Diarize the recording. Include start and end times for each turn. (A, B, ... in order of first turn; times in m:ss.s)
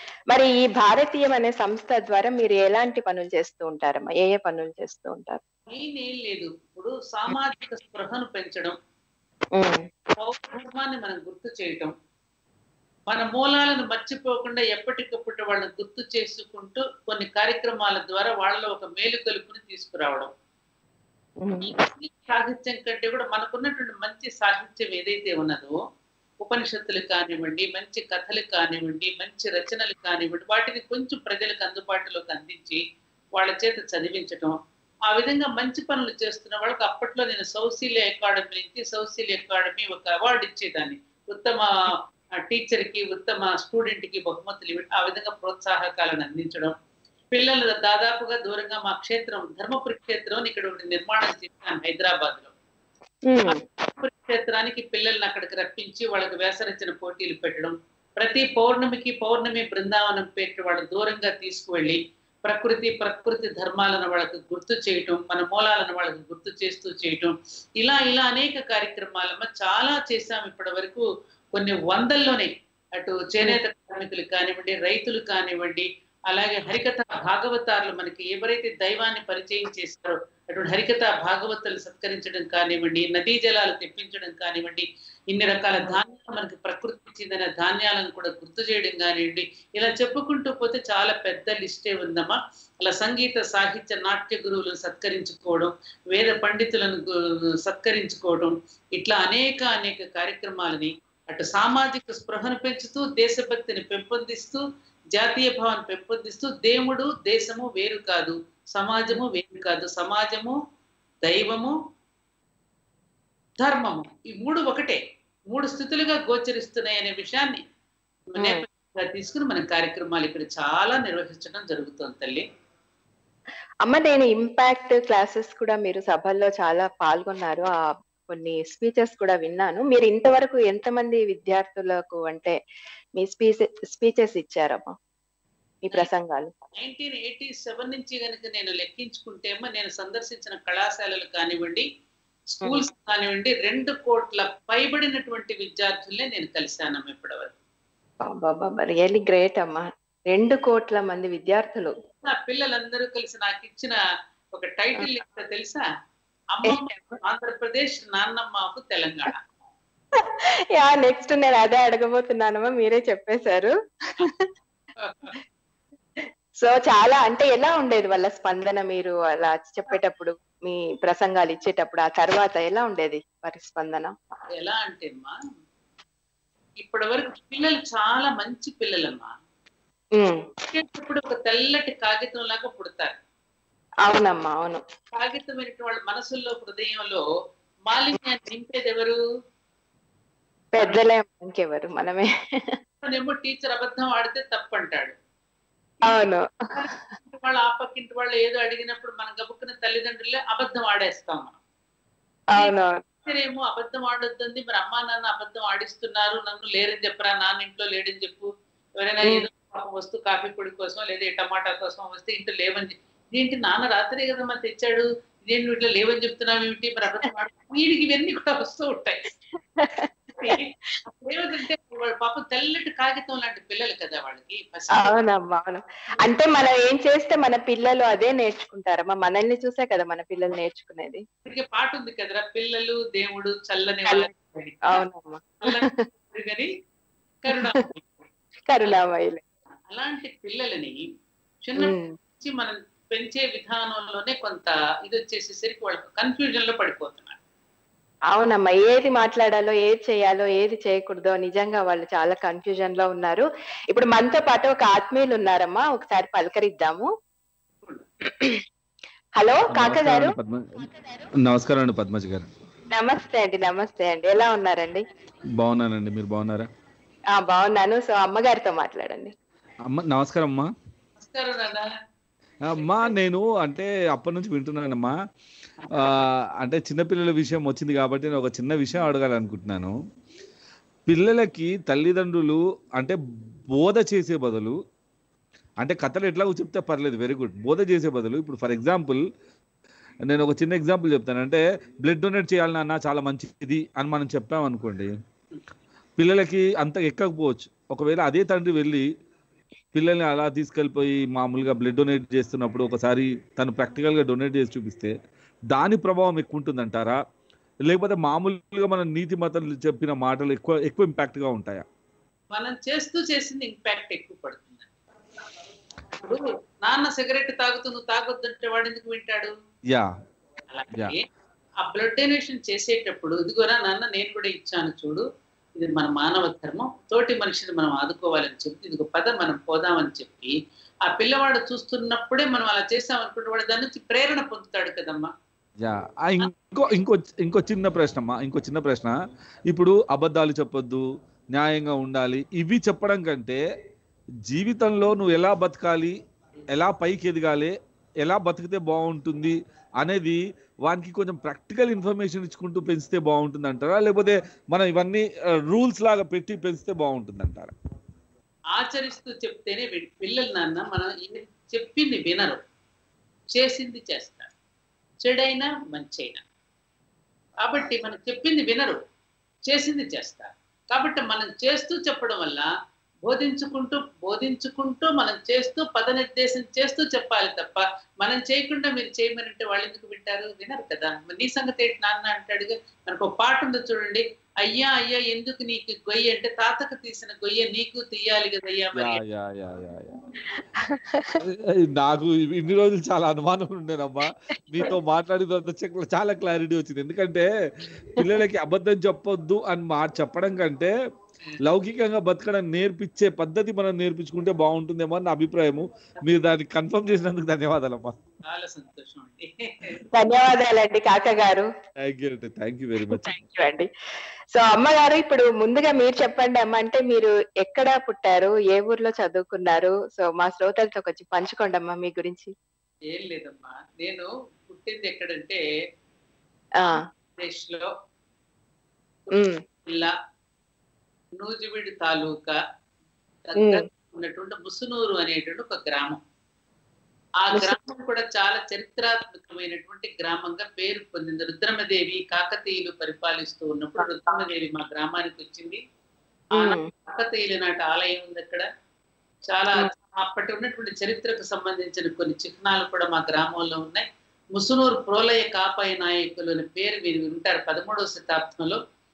0:00.3-0:05.4 A
0:05.7-0:08.8 B
0:09.6-0:09.8 A
0:10.2-0:11.9 B
0:13.1-0:20.3 B
0:21.4-0:21.7 A
0:21.6-0:25.8 B
0:26.4-0:32.8 B
0:33.4-0:34.6 B
0:35.1-0:46.7 B
0:47.3-0:52.5 B
0:53.3-0:53.6 A
0:53.5-1:37.0 B
1:37.6-1:44.6 B
1:45.2-1:50.6 B
1:51.2-1:51.7 B
1:53.6-1:55.0 B
1:55.5-1:57.6 B
1:58.3-2:02.4 B
2:03.8-2:07.7 A
2:08.3-2:12.6 A
2:13.2-2:14.9 A
2:15.9-2:16.5 A
2:16.8-2:21.9 B
2:22.5-2:27.5 B
2:28.3-2:31.9 A
2:32.1-2:34.0 B
2:34.6-2:35.9 B
2:36.5-2:39.4 B
2:36.7-2:37.1 A
2:40.8-2:44.5 A
2:45.0-2:45.3 B
2:46.6-2:54.1 A
2:54.6-2:55.4 B
2:56.8-2:59.3 B
3:00.7-3:03.2 B
3:04.1-3:04.8 A
3:05.1-3:07.2 B
3:07.9-3:09.2 B
3:10.8-3:12.3 A
3:13.0-3:15.2 B
3:16.0-3:16.5 A
3:16.7-3:21.6 B
3:22.6-3:23.0 A
3:23.2-3:39.3 B
3:39.8-3:40.6 A
3:40.4-3:45.1 B
3:45.0-3:51.2 A
3:51.5-3:55.0 B
3:54.9-3:56.0 A
3:55.6-3:56.7 B
3:57.4-3:58.2 B
3:58.7-3:59.4 A
3:59.9-4:01.0 B
4:01.6-4:07.4 B
4:01.8-4:02.1 A
4:08.3-4:17.1 A
4:19.4-4:20.4 A
4:19.7-4:20.8 C
4:21.4-4:22.5 C
4:22.9-4:25.0 A
4:25.6-4:26.7 C
4:27.4-4:29.3 A
4:29.9-4:30.7 C
4:31.2-4:31.9 B
4:32.8-4:33.1 B
4:32.8-4:35.1 C
4:35.8-4:36.1 B
4:36.0-4:39.9 C
4:41.1-4:43.2 C
4:43.7-4:44.8 C
4:45.8-4:49.2 C
4:50.3-4:55.1 C
4:56.2-4:59.0 C
4:59.9-5:05.1 C
5:05.7-5:07.2 C
5:07.8-5:11.8 C
5:12.5-5:14.9 B
5:16.2-5:19.5 B
5:20.7-5:21.2 B
5:21.8-5:25.2 B
5:25.8-5:30.5 B
5:31.1-5:35.3 B
5:35.8-5:39.1 C
5:39.7-5:43.6 C
5:44.5-5:46.2 C
5:46.7-5:57.7 C
5:58.8-6:02.6 B
6:03.6-6:04.5 B
6:05.2-6:06.4 B
6:07.6-6:09.0 B
6:09.7-6:12.7 B
6:13.3-6:29.2 B
6:29.0-6:30.1 C
6:30.9-6:31.4 A
6:31.4-6:37.5 C
6:38.2-6:40.9 C
6:41.6-6:48.1 C
6:48.4-6:50.0 B
6:50.1-6:51.7 A
6:52.1-6:53.3 C
6:53.1-6:53.9 A
6:54.6-7:02.5 A
7:03.1-7:05.6 B
7:06.9-7:07.9 B
7:09.3-7:10.1 B
7:09.3-7:09.6 A
7:11.4-7:12.6 B
7:13.5-7:16.2 B
7:13.6-7:13.8 A
7:17.4-7:25.8 B
7:26.6-7:26.9 A
7:26.6-7:28.7 B
7:29.5-7:38.8 B